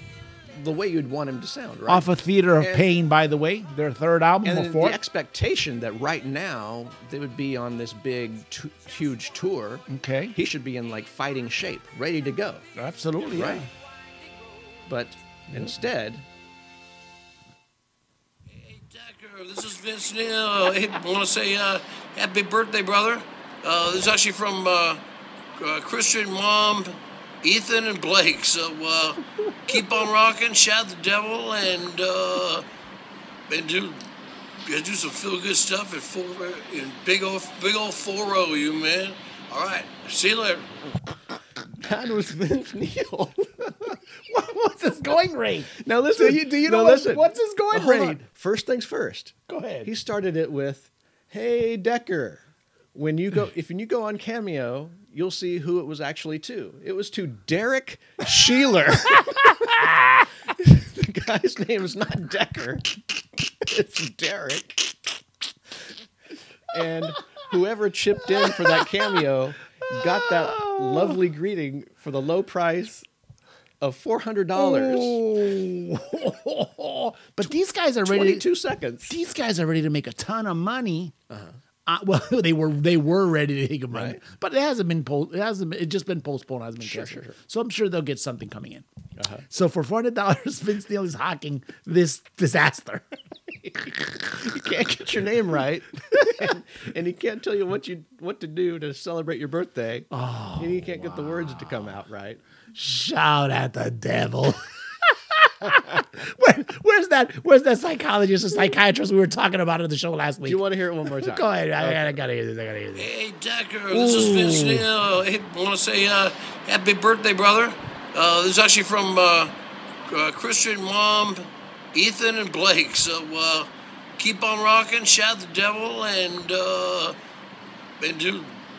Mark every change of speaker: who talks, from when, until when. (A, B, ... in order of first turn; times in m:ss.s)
0:00.4-0:03.0 A
0:01.9-0:05.0 B
0:04.4-0:12.7 A
0:09.9-0:10.4 B
0:12.8-0:13.7 B
0:13.3-0:13.6 A
0:14.8-0:16.2 A
0:18.5-0:25.0 C
0:25.6-0:32.6 C
0:33.5-0:34.1 C
0:34.6-0:40.9 C
0:41.8-0:43.7 A
0:43.9-0:48.2 B
0:45.7-1:02.9 A
0:49.5-0:49.9 B
1:03.6-1:05.0 A
1:06.7-1:13.0 A
1:10.5-1:11.0 B
1:13.8-1:15.2 A
1:14.6-1:18.5 B
1:18.0-1:19.1 A
1:19.0-1:21.1 B
1:21.3-1:21.6 A
1:21.8-1:28.8 B
1:23.9-1:24.2 A
1:26.8-1:27.4 A
1:29.2-1:29.4 A
1:29.5-1:34.3 B
1:34.3-1:42.4 A
1:40.1-1:41.8 B
1:42.7-1:50.6 B
1:50.4-1:52.2 A
1:51.2-1:53.1 B
1:52.9-1:59.5 C
1:53.9-1:54.8 B
2:00.0-2:07.2 C
2:08.0-2:08.6 C